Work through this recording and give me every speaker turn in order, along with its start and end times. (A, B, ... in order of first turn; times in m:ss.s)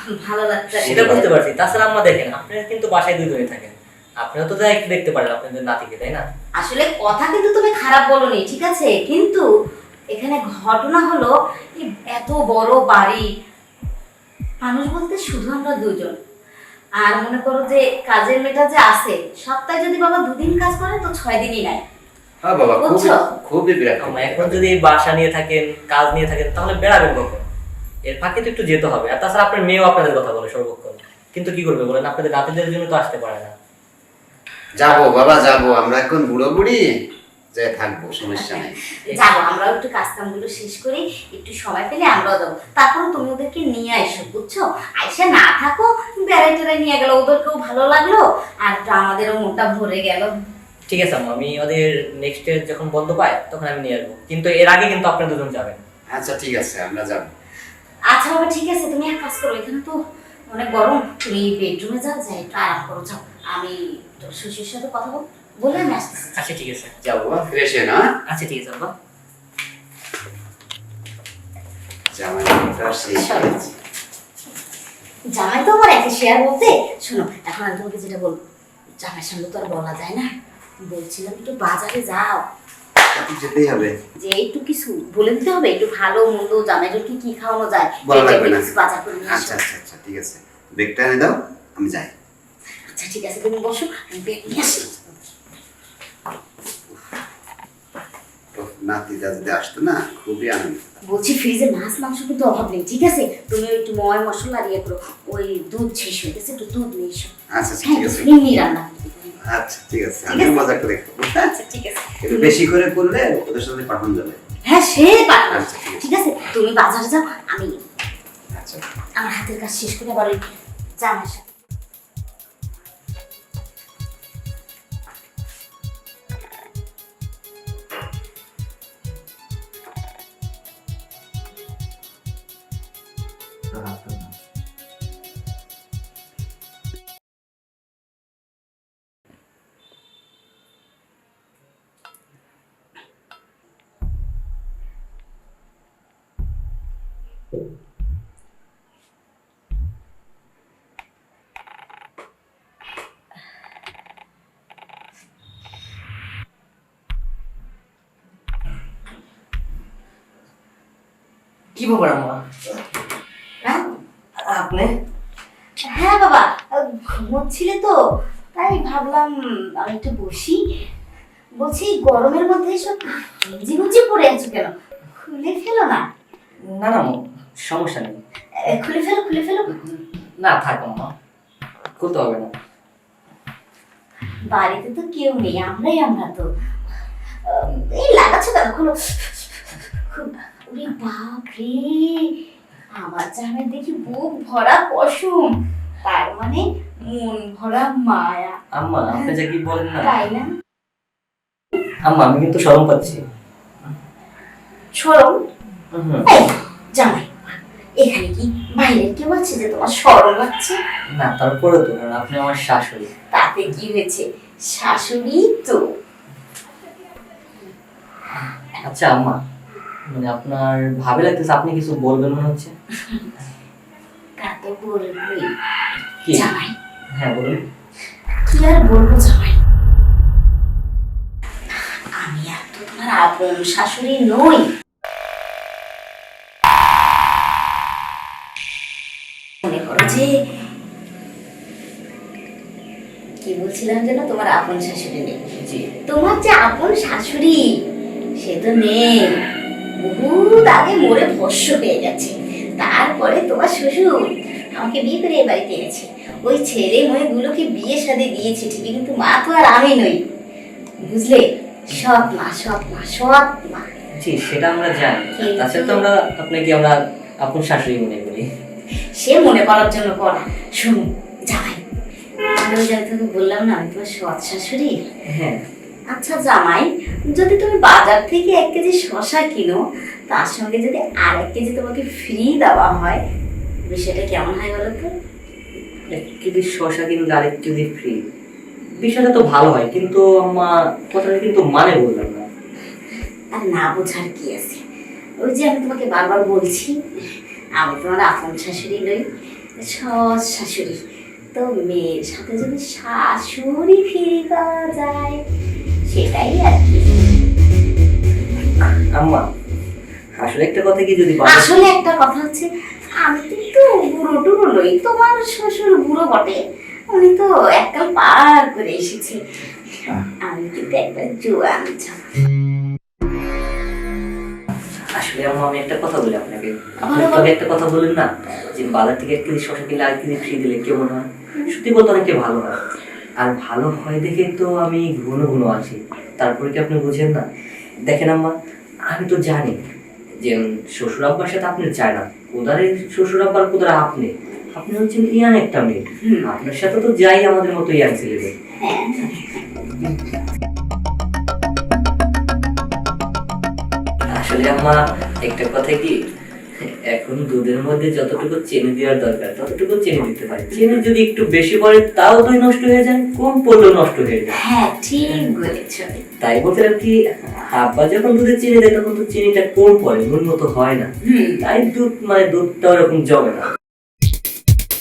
0:00.2-0:01.3 A
0:00.8-0:06.2 B
0:06.6-0:09.4 A
0:10.1-0:13.2 A
0:14.6-0:16.2 A
0:17.0-0:21.8 A
0:22.4-0:24.7 C
0:22.8-0:23.2 A
0:24.0-0:27.5 B
0:28.1-0:33.5 B
0:34.8-0:36.8 C
0:37.5-0:38.8 C
0:39.1-0:50.3 A
0:50.9-0:55.8 B
0:56.1-0:57.3 C
0:58.1-1:00.0 A
1:00.5-1:06.4 A
1:06.3-1:06.9 B
1:07.0-1:08.0 C
1:08.3-1:08.9 B
1:12.1-1:13.4 C
1:13.0-1:13.7 A
1:15.3-1:18.4 A
1:19.0-1:20.3 A
1:20.8-1:22.4 A
1:23.1-1:24.0 C
1:24.2-1:29.6 A
1:28.0-1:28.7 C
1:29.2-1:32.1 C
1:32.9-1:35.2 A
1:38.5-1:40.8 C
1:41.0-1:47.3 A
1:47.5-1:48.3 C
1:47.8-1:49.3 A
1:49.5-1:51.5 C
1:50.2-1:50.6 A
1:51.4-1:52.6 A
1:52.2-1:54.4 C
1:54.6-1:57.8 A
1:55.5-1:56.0 C
1:58.5-1:58.8 C
1:59.2-2:00.4 A
2:01.0-2:01.5 A
2:41.7-2:42.4 B
2:44.4-2:44.9 B
2:45.9-2:47.9 A
2:48.5-2:50.6 A
2:51.6-2:56.0 A
2:56.6-2:58.2 B
2:58.6-2:59.8 A
2:59.7-3:01.1 B
3:02.0-3:02.5 B
3:04.5-3:06.4 A
3:07.4-3:09.5 A
3:10.1-3:12.4 A
3:13.0-3:18.6 A
3:18.7-3:20.2 B
3:20.0-3:20.5 A
3:22.0-3:23.2 B
3:24.9-3:25.4 A
3:25.9-3:26.3 B
3:26.2-3:30.8 A
3:31.1-3:33.1 B
3:33.3-3:35.8 A
3:38.3-3:39.4 B
3:40.1-3:42.7 B
3:44.4-3:45.5 A
3:46.3-3:46.7 A
3:47.1-3:47.6 B
3:48.5-3:49.6 A
3:52.2-3:54.6 A
3:59.6-4:00.3 A
4:03.4-4:05.4 A
4:05.6-4:05.9 B
4:06.1-4:07.8 A
4:08.4-4:09.4 A
4:10.0-4:20.2 A
4:21.0-4:23.9 A
4:24.2-4:28.4 B
4:25.4-4:26.0 A
4:29.2-4:31.8 A
4:32.6-4:34.9 A
4:35.3-4:35.6 B
4:36.1-4:43.2 A
4:43.9-4:45.1 A
4:46.1-4:48.2 B
4:49.0-4:52.4 B
4:53.5-4:54.8 A
4:55.4-4:57.0 A
4:57.8-4:59.2 A
4:59.8-5:01.0 A
5:01.5-5:05.4 A
5:06.1-5:07.2 A
5:09.1-5:09.4 B
5:10.4-5:11.7 B
5:11.4-5:12.7 A
5:13.2-5:16.6 A
5:17.1-5:19.4 A
5:20.0-5:22.2 A
5:25.1-5:32.8 B
5:27.0-5:27.5 A
5:33.4-5:37.4 B
5:38.0-5:38.5 B
5:39.1-5:39.8 B
5:40.4-5:48.5 B
5:46.2-5:46.5 A
5:48.8-5:50.1 A
5:54.3-5:56.2 B
5:56.8-6:04.6 B
6:04.5-6:06.2 A
6:06.4-6:11.1 B
6:11.2-6:11.6 A
6:11.6-6:13.7 B